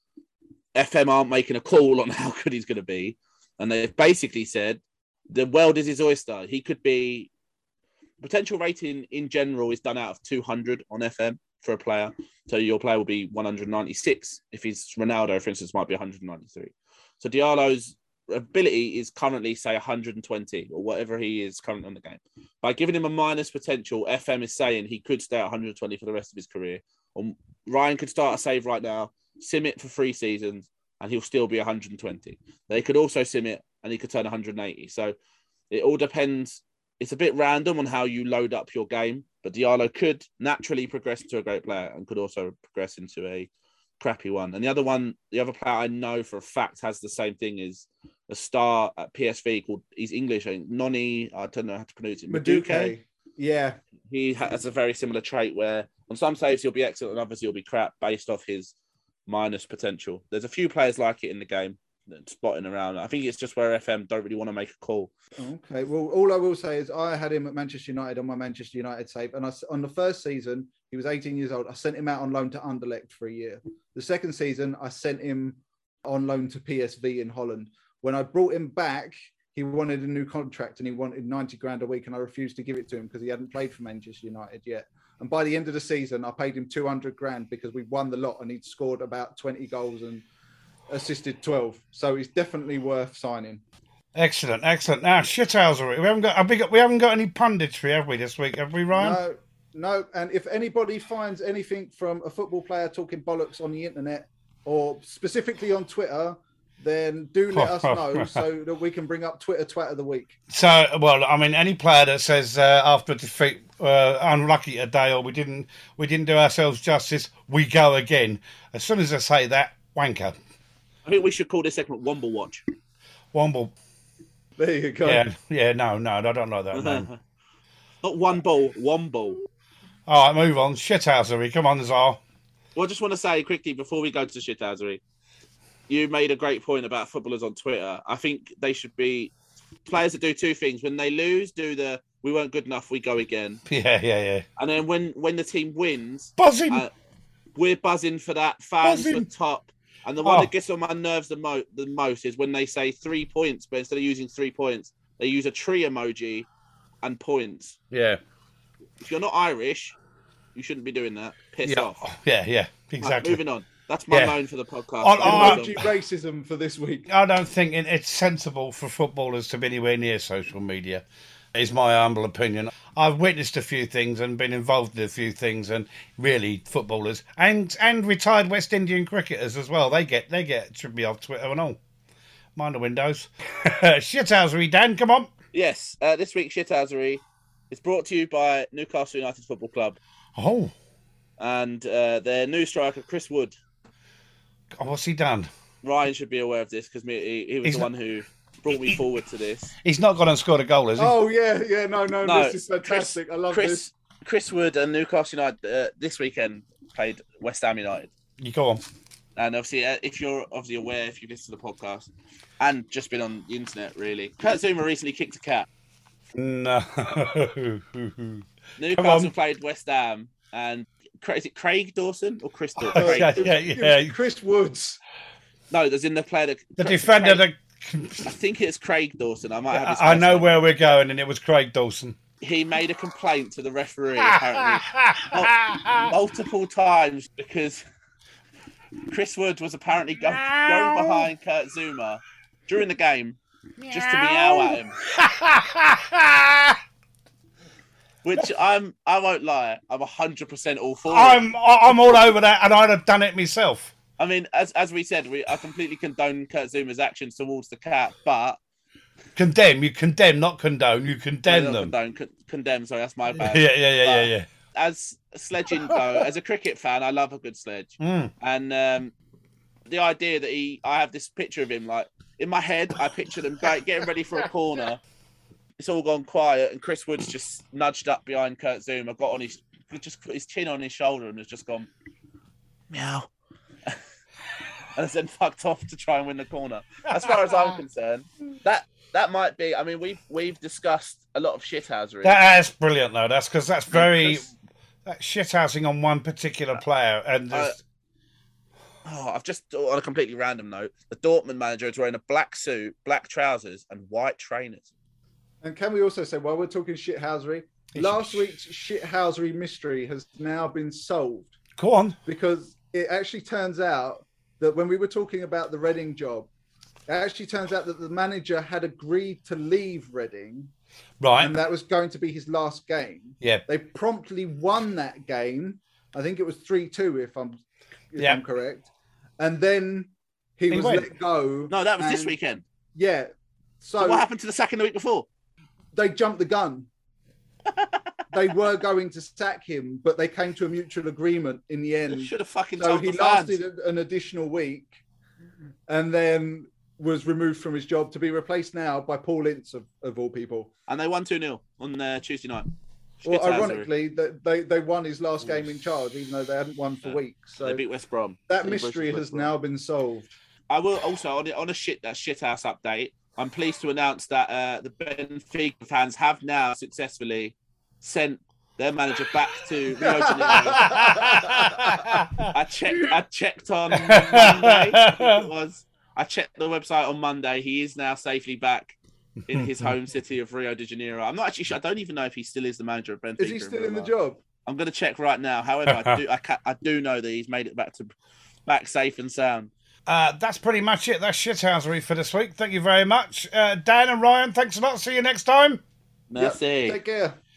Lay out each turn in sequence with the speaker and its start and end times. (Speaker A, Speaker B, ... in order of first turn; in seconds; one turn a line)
Speaker A: 0.7-7.3
Speaker A: 8.2-35.1
Speaker A: 35.7-52.9
Speaker B: 52.3-53.8
Speaker A: 54.1-58.7
Speaker A: 59.3-65.1
Speaker B: 65.4-90.2
Speaker B: 90.9-93.6
Speaker C: 94.1-99.2
Speaker B: 98.9-110.4
Speaker C: 107.5-108.4
Speaker C: 110.5-120.4
Speaker A: 121.0-122.6
Speaker C: 123.3-123.7
Speaker B: 124.6-125.2
Speaker C: 125.0-127.1
Speaker A: 126.7-127.2
Speaker A: 128.0-129.4
Speaker C: 130.1-132.2
Speaker A: 132.7-135.0
Speaker A: 135.9-139.3
Speaker A: 139.8-143.6
Speaker C: 143.7-144.4
Speaker A: 144.6-146.9
Speaker C: 146.4-146.8
Speaker A: 147.5-156.5
Speaker C: 148.8-149.3
Speaker C: 150.2-150.5
Speaker A: 157.0-157.8
Speaker C: 157.9-158.2
Speaker A: 159.0-159.9
Speaker A: 160.5-162.1
Speaker C: 161.6-163.4
Speaker A: 163.0-165.8
Speaker C: 164.1-164.3
Speaker C: 165.0-165.7
Speaker B: 165.2-167.1
Speaker C: 167.1-181.8
Speaker C: 182.6-185.3
Speaker A: 185.5-190.0
Speaker C: 190.3-190.7
Speaker A: 191.4-193.5
Speaker C: 194.8-195.5
Speaker A: 195.8-199.7
Speaker C: 197.6-197.9
Speaker C: 199.8-201.1
Speaker B: 201.0-203.8
Speaker A: 202.2-208.1
Speaker C: 208.4-208.8
Speaker A: 209.4-212.1
Speaker A: 212.6-215.7
Speaker C: 216.3-219.3
Speaker A: 218.8-223.5
Speaker C: 222.8-224.1
Speaker B: 222.9-225.0
Speaker A: 225.7-227.4
Speaker C: 226.8-228.3
Speaker A: 228.2-230.6
Speaker C: 229.7-232.2
Speaker A: 232.4-237.8
Speaker C: 234.2-236.1
Speaker A: 239.1-245.0
Speaker C: 240.2-241.3
Speaker C: 243.8-246.8
Speaker A: 248.2-251.4
Speaker C: 251.1-253.9
Speaker A: 254.2-258.6
Speaker C: 259.4-261.9
Speaker A: 261.5-269.1
Speaker C: 263.4-264.5
Speaker C: 268.0-268.3
Speaker A: 269.9-275.0
Speaker A: 275.8-281.9
Speaker A: 282.9-283.3
Speaker A: 284.9-292.4
Speaker C: 292.2-294.5
Speaker A: 293.9-294.5
Speaker C: 295.1-297.8
Speaker A: 299.0-304.9
Speaker B: 305.6-311.6
Speaker C: 307.9-308.4
Speaker C: 311.8-312.2
Speaker B: 312.2-316.5
Speaker B: 317.1-320.7
Speaker C: 321.2-321.5
Speaker B: 321.4-332.4
Speaker C: 330.7-331.1
Speaker A: 331.7-332.6
Speaker B: 332.9-333.3
Speaker B: 333.8-334.2
Speaker A: 334.0-335.3
Speaker B: 335.9-336.9
Speaker A: 337.7-338.0
Speaker B: 338.3-345.0
Speaker A: 342.1-343.6
Speaker B: 345.9-350.7
Speaker A: 350.9-352.7
Speaker A: 353.2-353.9
Speaker B: 353.2-357.8
Speaker A: 357.0-359.5
Speaker B: 358.5-360.3
Speaker A: 360.7-379.0
Speaker B: 370.0-371.7
Speaker C: 370.8-372.5
Speaker C: 373.9-375.5
Speaker A: 379.5-384.1
Speaker C: 379.5-379.9
Speaker B: 383.4-384.4
Speaker A: 384.6-388.1
Speaker C: 385.9-386.2
Speaker A: 388.7-389.7
Speaker C: 390.1-395.8
Speaker A: 396.3-397.0
Speaker B: 396.4-397.4